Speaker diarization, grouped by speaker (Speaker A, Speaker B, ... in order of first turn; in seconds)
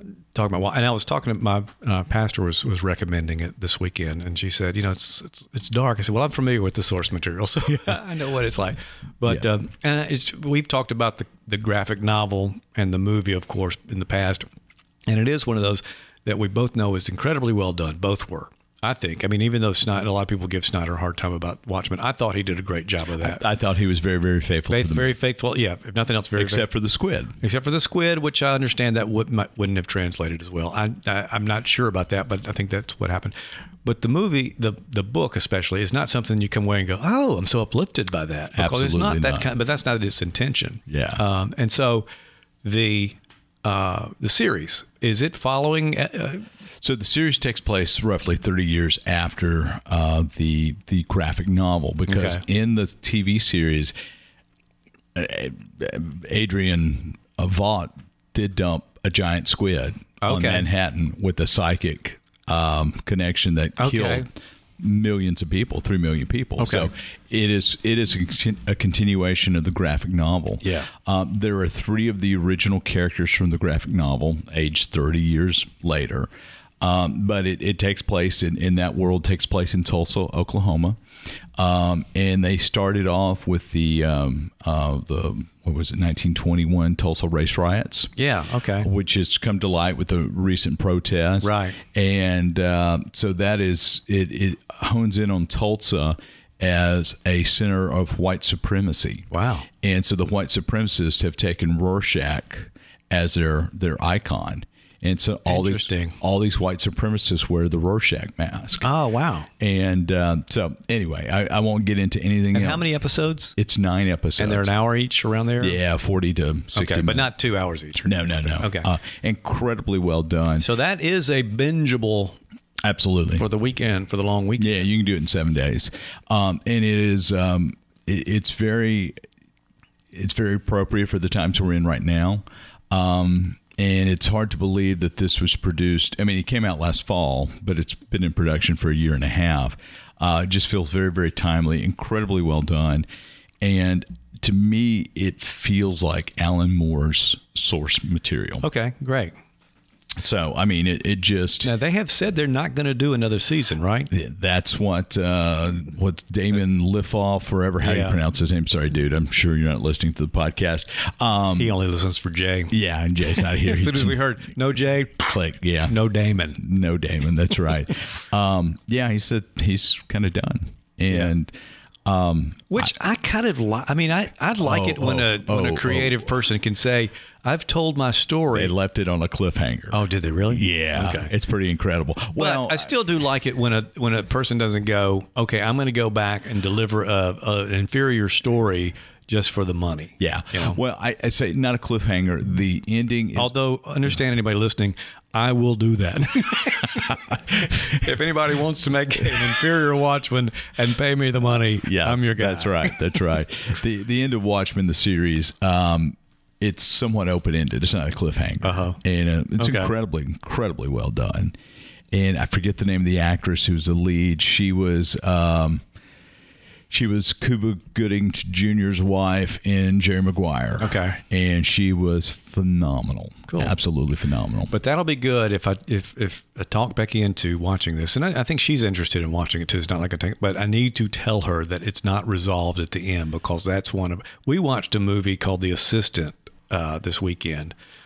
Speaker A: 0.3-14.4, 15.1-23.4, 24.7-26.7, 27.4-42.0, 42.6-46.4, 52.1-52.4, 60.2-60.7, 63.8-64.3, 66.6-66.9, 70.6-70.9, 88.2-88.9, 91.4-91.8, 99.3-99.7, 105.5-106.2, 108.8-109.5, 112.5-113.5, 114.4-115.8, 116.7-118.9, 120.6-122.4, 123.3-124.8, 148.6-149.3, 151.6-154.1, 157.8-158.2, 161.6-162.7, 163.3-165.3, 165.8-166.6, 172.7-178.7, 179.9-181.3, 182.3-190.8, 193.3-203.2, 208.6-209.0, 209.6-209.9, 220.8-221.2, 223.5-223.7, 224.7-237.7
Speaker B: 23.2-25.1, 26.3-27.3, 38.5-39.5, 40.9-41.2, 46.8-53.9, 55.1-76.3, 76.8-81.0, 81.5-88.1, 88.8-108.9, 109.6-112.8, 113.5-114.7, 115.6-117.3, 118.0-120.7, 122.8-123.5, 124.6-129.2, 130.1-143.1, 143.6-148.6, 150.2-151.7, 154.1-161.7, 162.7-164.2, 165.2-165.9, 166.6-172.9, 174.6-176.3, 178.5-182.9, 190.2-193.5, 197.1-197.8, 201.8-211.6, 212.1-215.8, 216.9-224.7